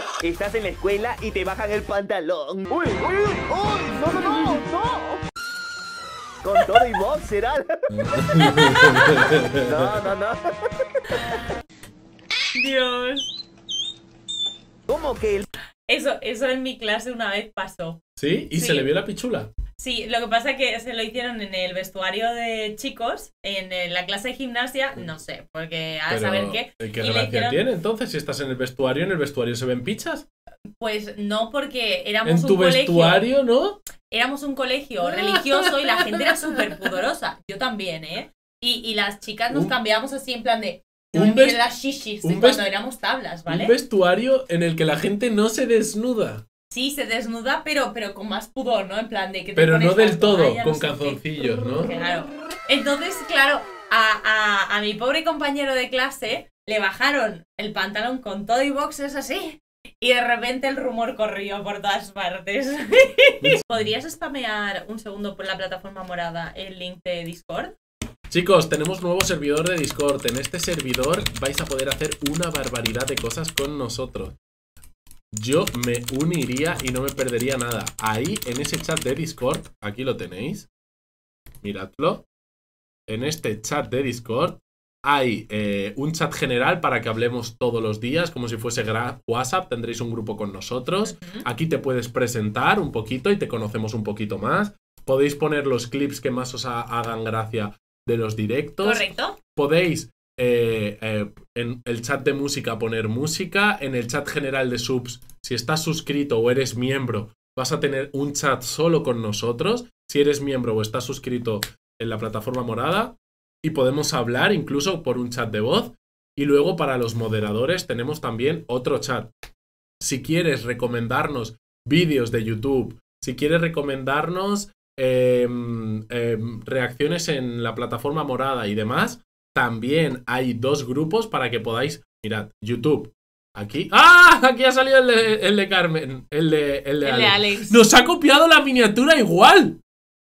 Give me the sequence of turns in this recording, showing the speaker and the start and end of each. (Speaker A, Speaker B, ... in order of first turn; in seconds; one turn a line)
Speaker A: 0.2-5.2
Speaker A: 6.4-7.7
Speaker B: 7.9-9.9
Speaker C: 8.5-9.2
Speaker A: 9.6-10.4
Speaker C: 11.2-11.5
Speaker C: 12.5-13.3
Speaker A: 14.9-15.5
Speaker C: 15.9-18.0
Speaker B: 18.2-19.5
Speaker C: 18.5-18.9
Speaker C: 19.8-27.6
Speaker B: 26.1-30.3
Speaker C: 30.8-33.3
Speaker B: 32.2-33.8
Speaker C: 34.1-43.8
Speaker B: 35.0-36.8
Speaker B: 41.1-41.6
Speaker B: 42.2-42.7
Speaker B: 43.5-46.4
Speaker C: 46.7-67.7
Speaker B: 49.6-51.9
Speaker B: 68.3-74.4
Speaker B: 75.3-80.7
Speaker B: 81.6-82.3
Speaker B: 83.1-99.0
Speaker C: 91.0-91.4
Speaker C: 98.8-99.4
Speaker B: 99.6-119.3
Speaker B: 120.0-139.8
Speaker C: 137.0-137.8